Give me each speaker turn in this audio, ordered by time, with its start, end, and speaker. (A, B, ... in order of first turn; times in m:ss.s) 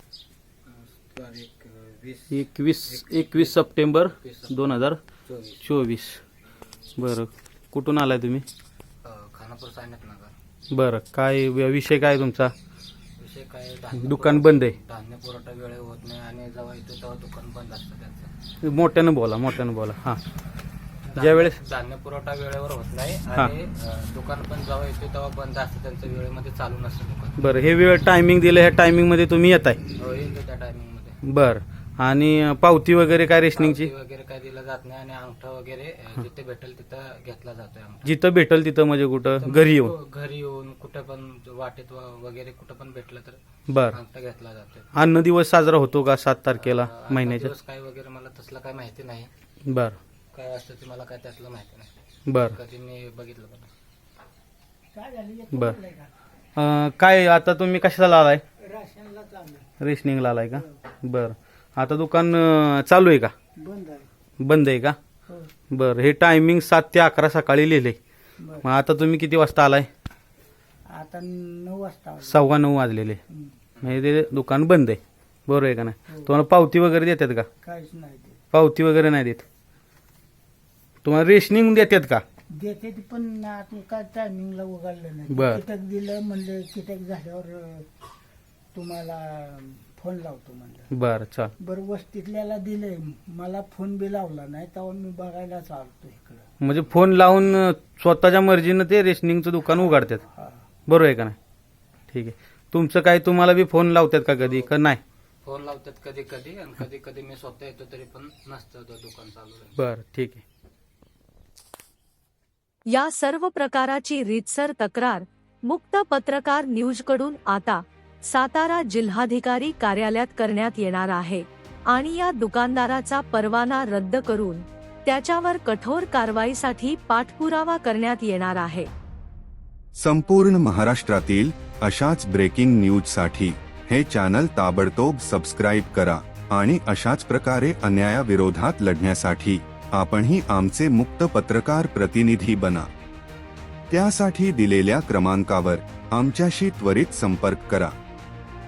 0:00.6-0:04.7 A
0:02.3-0:05.0 B
0:05.2-0:05.7 A
0:05.6-0:06.2 B
0:07.0-0:08.4 B
0:09.0-0:10.3 A
0:10.7-0:12.5 B
0:13.2-0:18.3 A
0:13.9-0:14.8 B
0:18.6-0:20.2 B
0:21.1-0:27.4 A
0:21.2-0:21.6 B
0:27.4-0:29.8 B
0:30.0-0:31.2 A
0:31.2-0:33.9 B
0:33.5-0:38.2 A
0:38.0-0:39.9 B
0:39.4-0:44.9 A
0:43.7-0:44.0 B
0:44.9-0:47.5 B
0:46.6-0:49.3 A
0:49.7-0:50.0 B
0:50.3-0:53.7 A
0:52.3-0:52.6 B
0:54.9-0:56.1 C
0:56.6-0:58.4 B
0:58.6-0:59.7 C
0:59.8-1:03.3 B
1:03.6-1:04.1 C
1:04.4-1:05.0 B
1:05.7-1:08.0 B
1:08.4-1:08.6 C
1:08.6-1:09.9 B
1:10.9-1:12.5 C
1:12.2-1:13.2 B
1:13.3-1:13.6 C
1:13.8-1:17.5 B
1:16.1-1:16.3 C
1:17.6-1:18.4 C
1:18.5-1:19.4 B
1:21.0-1:22.2 B
1:22.5-1:27.9 C
1:25.3-1:25.6 B
1:28.7-1:30.9 C
1:30.9-1:31.5 B
1:31.6-1:36.4 C
1:36.6-1:40.2 B
1:40.3-1:40.6 C
1:40.9-1:41.4 B
1:42.1-1:45.0 B
1:44.4-1:44.7 A
1:45.4-1:49.7 A
1:49.8-1:50.4 B
1:52.9-2:08.9 D
2:09.9-2:22.9 E
2:23.9-2:27.9 E